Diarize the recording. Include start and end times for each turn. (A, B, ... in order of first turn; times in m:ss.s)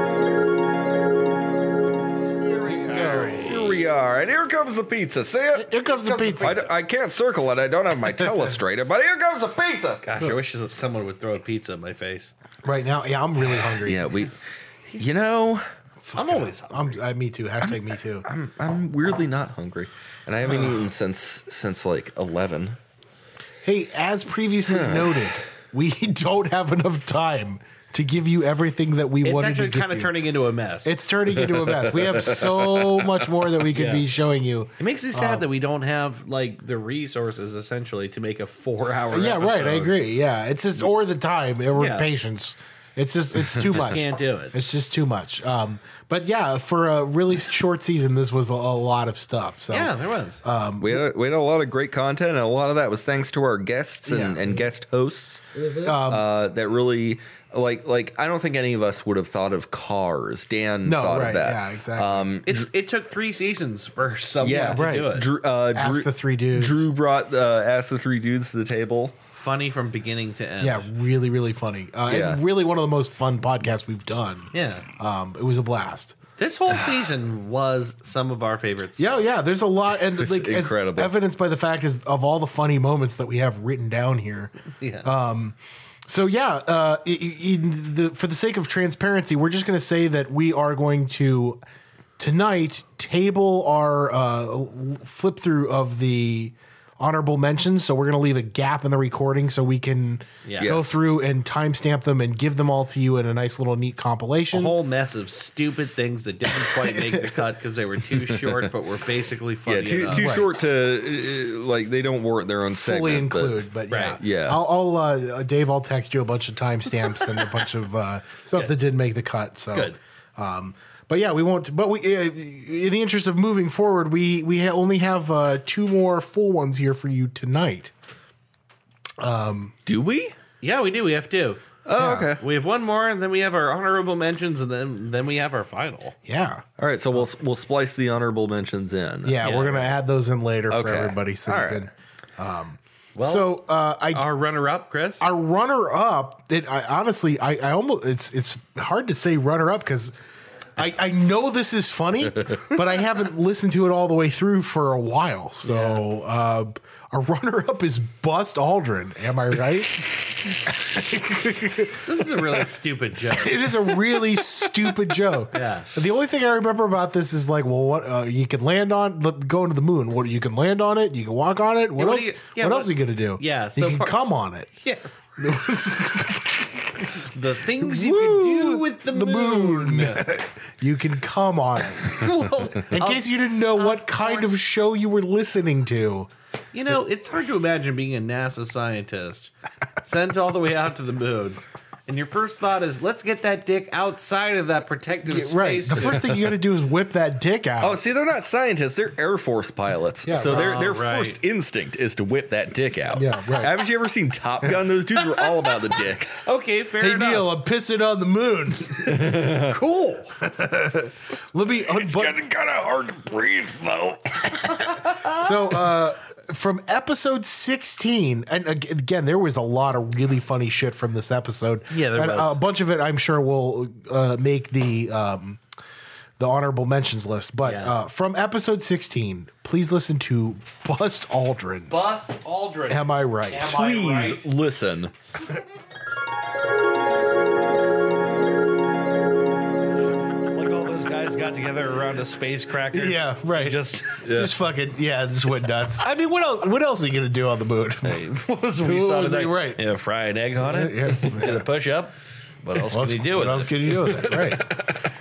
0:02.6-0:03.4 A
0:02.7-0:03.7 B
0:02.9-0:05.7 C
0:05.5-0:06.6 B
0:06.0-0:06.7 A
0:06.4-0:10.0 C
0:10.0-0:12.3 A
0:12.6-0:14.1 B
0:13.8-0:14.3 C
0:14.9-0:15.6 C
0:16.0-0:18.3 B
0:16.1-0:17.0 A
0:17.7-0:22.8 C
0:23.6-0:30.2 B
0:24.8-0:25.2 C
0:29.2-0:30.9 A
0:30.8-0:35.4 B
0:33.7-0:34.0 A
0:34.8-0:40.0 A
0:39.1-0:51.0 B
0:41.7-0:42.1 A
0:43.6-0:44.5 A
0:49.7-0:50.4 A
0:50.8-1:02.7 C
0:54.0-0:54.6 B
0:55.8-0:56.3 B
1:00.8-1:02.3 B
1:02.4-1:05.3 A
1:04.4-1:09.2 C
1:04.7-1:05.1 B
1:05.7-1:06.9 B
1:09.3-1:10.9 A
1:10.6-1:16.2 B
1:12.1-1:12.4 C
1:14.5-1:14.8 A
1:16.4-1:19.2 A
1:19.0-1:31.6 B
1:20.2-1:21.1 C
1:24.8-1:25.1 A
1:32.2-1:44.7 B
1:40.4-1:40.8 A
1:40.6-1:41.0 C
1:44.5-1:50.4 A
1:46.9-1:47.2 B
1:49.7-1:53.6 C
1:50.1-1:50.5 B
1:52.8-2:07.9 B
1:53.9-1:54.2 A
1:54.2-1:54.6 C
1:59.7-2:00.0 A
2:09.2-2:09.7 B
2:09.9-2:10.3 C
2:10.6-2:16.1 A
2:11.8-2:12.4 C
2:12.0-2:12.3 B
2:16.2-2:16.6 B
2:16.8-2:19.4 C
2:19.2-2:24.3 B
2:19.4-2:19.8 A
2:20.7-2:21.8 C
2:23.2-2:23.6 A
2:24.1-2:25.2 A
2:25.2-2:30.1 B
2:30.8-2:42.2 B
2:35.6-2:36.0 A
2:42.0-2:43.8 A
2:43.3-2:54.7 B
2:45.5-2:45.9 A
2:52.0-2:54.2 A
2:54.8-2:55.1 A
2:55.4-3:06.3 B
2:57.2-3:00.2 A
3:02.1-3:04.5 A
3:06.7-3:16.3 A
3:15.2-3:18.0 B
3:17.8-3:26.3 C
3:20.2-3:20.7 B
3:20.4-3:21.4 A
3:23.1-3:23.8 B
3:26.4-3:27.5 A
3:27.0-3:29.4 B
3:29.1-3:29.7 C
3:29.6-3:30.3 A
3:30.4-3:32.4 B
3:31.9-3:34.6 C
3:35.1-3:35.4 A
3:35.2-3:45.6 B
3:41.9-3:42.6 A
3:46.4-3:52.0 B
3:47.6-3:47.9 A
3:51.9-3:54.4 A
3:52.9-3:53.8 B
3:53.6-3:55.1 C
4:00.5-4:04.2 A
4:02.9-4:08.2 B
4:04.2-4:04.6 C
4:08.0-4:13.8 A
4:08.8-4:09.8 B
4:10.6-4:11.6 B
4:12.8-4:14.7 B